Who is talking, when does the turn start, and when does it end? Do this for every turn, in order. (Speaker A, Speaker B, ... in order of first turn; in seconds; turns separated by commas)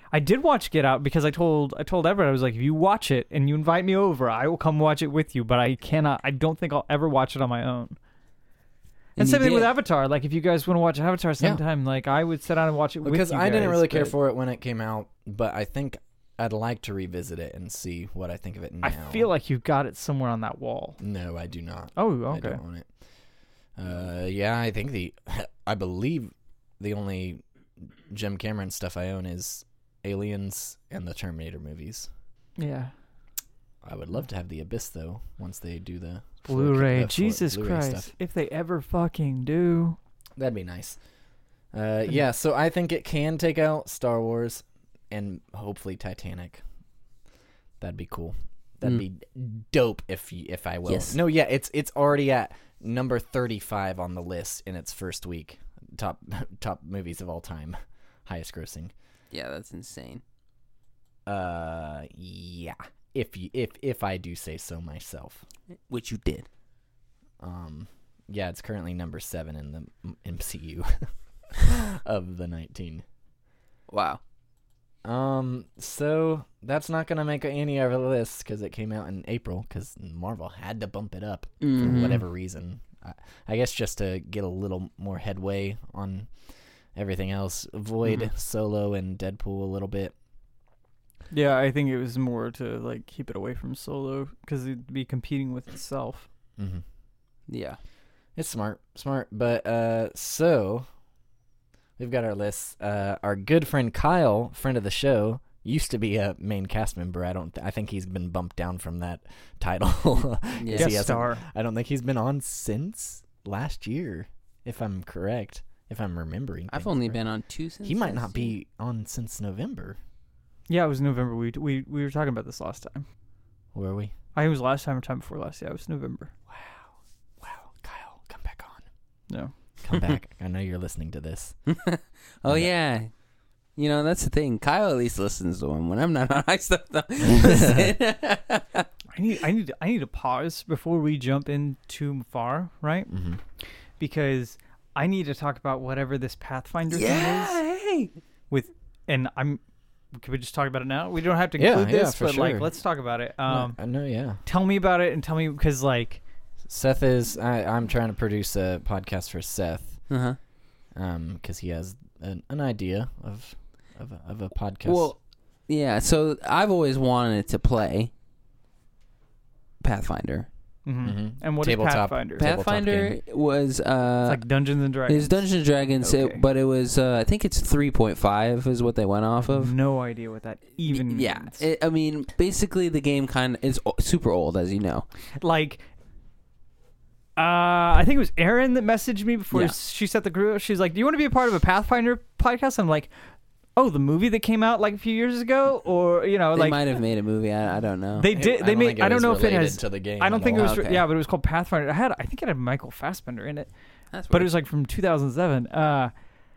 Speaker A: 0.1-8.0, Speaker A: 9.2-14.2, Speaker B: 9.2-9.7, Speaker C: 13.0-19.3, Speaker A: 18.8-21.0, Speaker C: 21.0-22.9, Speaker A: 21.9-22.6, Speaker C: 23.8-32.1, Speaker A: 32.6-32.9, Speaker C: 33.8-38.1, Speaker A: 36.4-40.0, Speaker C: 40.4-41.0, Speaker C: 41.7-46.6, Speaker C: 47.8-58.9, Speaker B: 50.9-51.2, Speaker B: 59.3-60.2, Speaker C: 61.2-65.4, Speaker B: 65.9-66.5, Speaker C: 67.4-73.0, Speaker B: 73.9-74.2, Speaker C: 75.0-86.3, Speaker B: 81.6-82.2, Speaker C: 86.9-90.1, Speaker A: 91.3-96.3, Speaker C: 96.6-96.8, Speaker B: 97.5-97.8, Speaker C: 98.3-100.8, Speaker C: 102.0-117.2, Speaker B: 110.6-111.0, Speaker A: 110.7-111.4, Speaker B: 116.7-118.5, Speaker C: 117.8-120.0, Speaker A: 120.7-123.0, Speaker C: 123.7-124.1, Speaker A: 124.3-126.3, Speaker C: 126.5-128.8, Speaker C: 129.8-131.6, Speaker B: 131.7-133.1, Speaker C: 132.4-132.7, Speaker B: 133.8-138.9, Speaker C: 137.4-137.8, Speaker A: 139.1-143.1, Speaker C: 143.1-143.4, Speaker A: 144.0-147.6, Speaker B: 146.9-148.1, Speaker A: 148.5-149.6, Speaker A: 150.1-153.8, Speaker C: 151.6-152.7, Speaker C: 153.4-154.4, Speaker A: 154.4-156.2, Speaker C: 156.7-160.0, Speaker B: 160.1-160.4, Speaker C: 160.9-165.1, Speaker B: 164.8-168.1, Speaker B: 169.8-170.5, Speaker A: 170.8-172.4, Speaker C: 171.0-173.2, Speaker B: 172.4-174.4, Speaker A: 174.2-175.4, Speaker B: 175.1-179.7, Speaker A: 176.0-176.4, Speaker A: 179.4-181.6, Speaker B: 180.9-185.1, Speaker A: 185.4-185.8, Speaker A: 187.3-193.1, Speaker A: 193.8-196.8, Speaker B: 196.5-198.3, Speaker A: 198.2-203.7, Speaker C: 198.3-200.8, Speaker B: 200.6-201.1, Speaker B: 204.1-204.5, Speaker A: 204.3-206.1